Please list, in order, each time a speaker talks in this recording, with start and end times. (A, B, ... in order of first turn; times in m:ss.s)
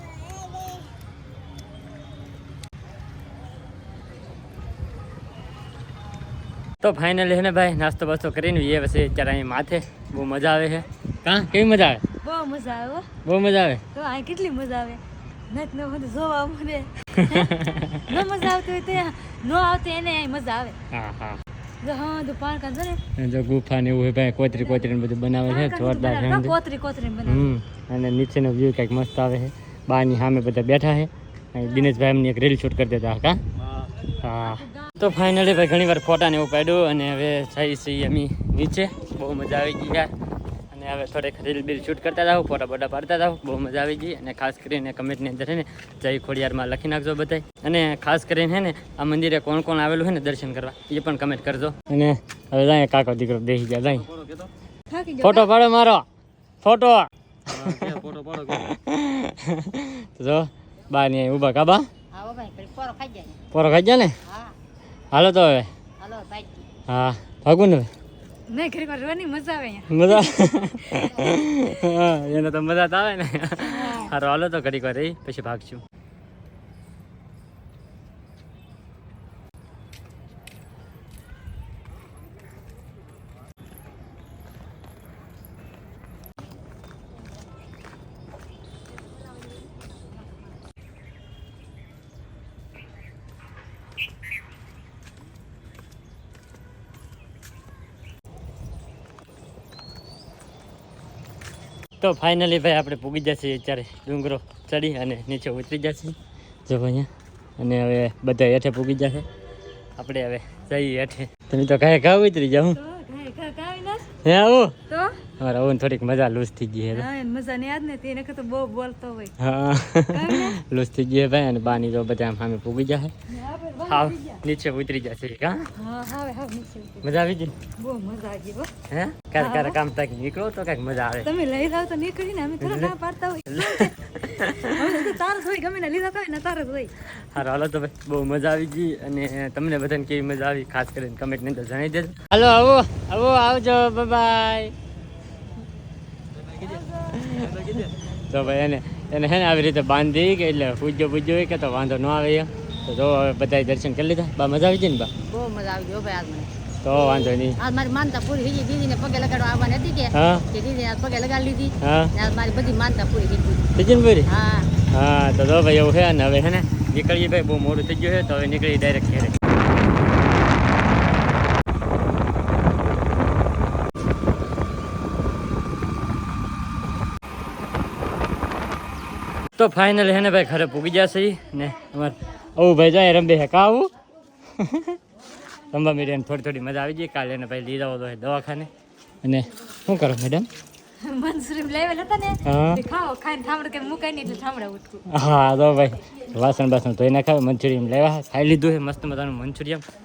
0:06.8-0:12.0 A
0:12.2-0:13.1 B
0:13.2-0:13.8 A
0:13.9-0:20.8 B
0:17.1-0:18.1 A
0:20.9-0:21.4 A
0:21.8-0:23.0 B
0:23.2-0:26.6 A
0:25.4-0:27.5 B
0:27.2-0:33.4 A
0:34.0-0:40.1 A
0:34.5-0:34.9 B
0:40.7-0:54.4 A
0:54.9-0:55.5 B
0:55.2-0:56.0 A
0:56.6-1:01.9 A
1:02.1-1:03.4 C
1:03.5-1:04.2 A
1:04.2-1:04.5 C
1:05.1-1:05.7 A
1:06.0-1:06.6 C
1:06.9-1:07.9 A
1:08.5-1:10.5 B
1:09.9-1:15.8 A
1:13.6-1:14.1 B
1:42.0-1:49.2 A
1:50.0-1:52.8 A
1:52.7-1:54.1 B
1:54.2-1:54.8 A
1:54.9-1:55.2 B
1:55.4-1:57.1 A
1:56.9-1:59.4 B
1:59.4-2:03.1 A
2:00.1-2:00.6 B
2:03.3-2:04.4 B
2:03.8-2:05.7 A
2:05.8-2:07.1 B
2:07.0-2:07.5 A
2:07.8-2:08.7 B
2:08.9-2:11.3 A
2:09.4-2:09.8 B
2:11.2-2:16.9 B
2:12.6-2:12.9 A
2:13.5-2:15.1 A
2:17.2-2:24.7 A
2:26.6-2:26.9 B
2:26.6-2:35.1 A
2:35.2-2:36.5 C
2:36.8-2:37.6 A
2:37.6-2:43.6 C
2:40.1-2:40.5 A
2:41.8-2:42.1 A
2:43.8-2:44.3 A
2:44.3-2:44.7 C
2:44.9-2:49.4 A
2:59.6-3:03.9 A
3:04.6-3:05.0 A
3:05.7-3:08.7 A
3:09.2-3:10.5 A
3:11.0-3:15.0 B
3:12.4-3:12.8 A
3:15.1-3:19.8 A